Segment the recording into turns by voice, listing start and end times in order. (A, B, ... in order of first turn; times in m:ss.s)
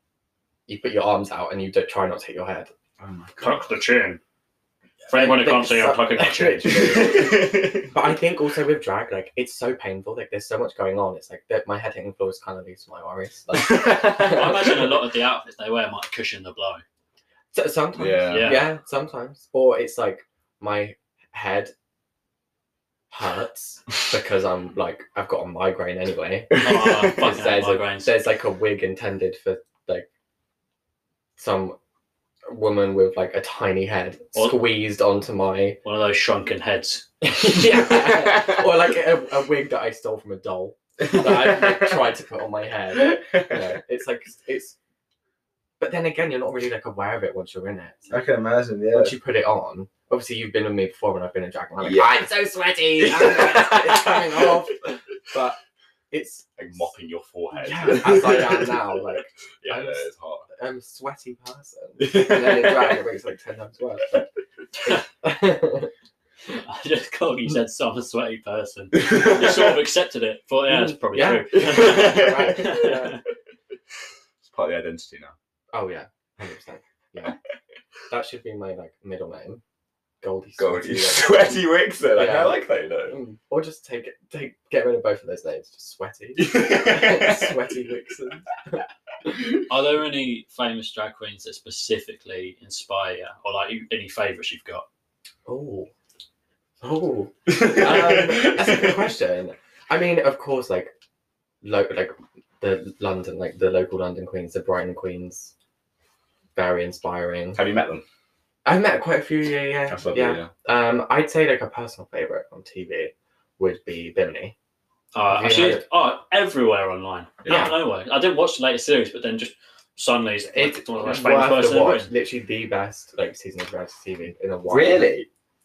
0:00.7-0:02.7 A
0:03.0-0:03.7 B
0:03.4-0:04.2 C
0:05.1-0:07.2 C
0:05.1-0:15.0 A
0:06.7-0:08.2 B
0:13.5-0:14.9 B
0:14.2-0:16.8 C
0:17.5-0:21.7 A
0:18.0-0:18.7 B
0:18.3-0:18.7 C
0:23.1-0:30.1 A
0:26.6-0:28.2 C
0:31.4-0:31.8 A
0:32.5-0:35.8 A
0:34.4-0:34.6 C
0:35.8-0:37.1 C
0:37.2-0:44.8 A
0:37.9-0:38.6 B
0:41.0-0:42.2 B
0:42.9-0:43.8 B
0:45.8-0:48.2 A
0:48.1-0:49.2 B
0:48.9-0:55.6 A
0:51.8-0:55.0 B
0:56.1-0:56.9 A
0:56.6-1:00.5 B
0:57.5-1:04.3 A
1:02.0-1:03.0 B
1:04.9-1:05.9 A
1:06.5-1:13.2 C
1:09.1-1:09.7 B
1:10.7-1:13.2 A
1:11.6-1:13.0 B
1:14.4-1:15.3 B
1:15.7-1:17.4 A
1:18.1-1:19.6 A
1:20.2-1:29.3 A
1:20.6-1:23.2 B
1:26.4-1:27.8 B
1:29.7-1:34.8 C
1:35.5-1:35.9 A
1:36.8-1:40.9 A
1:37.5-1:39.1 B
1:41.6-1:45.5 A
1:46.6-1:47.6 A
1:47.6-1:48.0 B
1:48.6-1:54.6 A
1:49.9-1:50.5 B
1:55.1-2:02.1 C
1:55.3-1:55.8 A
1:57.5-1:57.8 A
2:00.6-2:05.2 A
2:04.7-2:05.3 B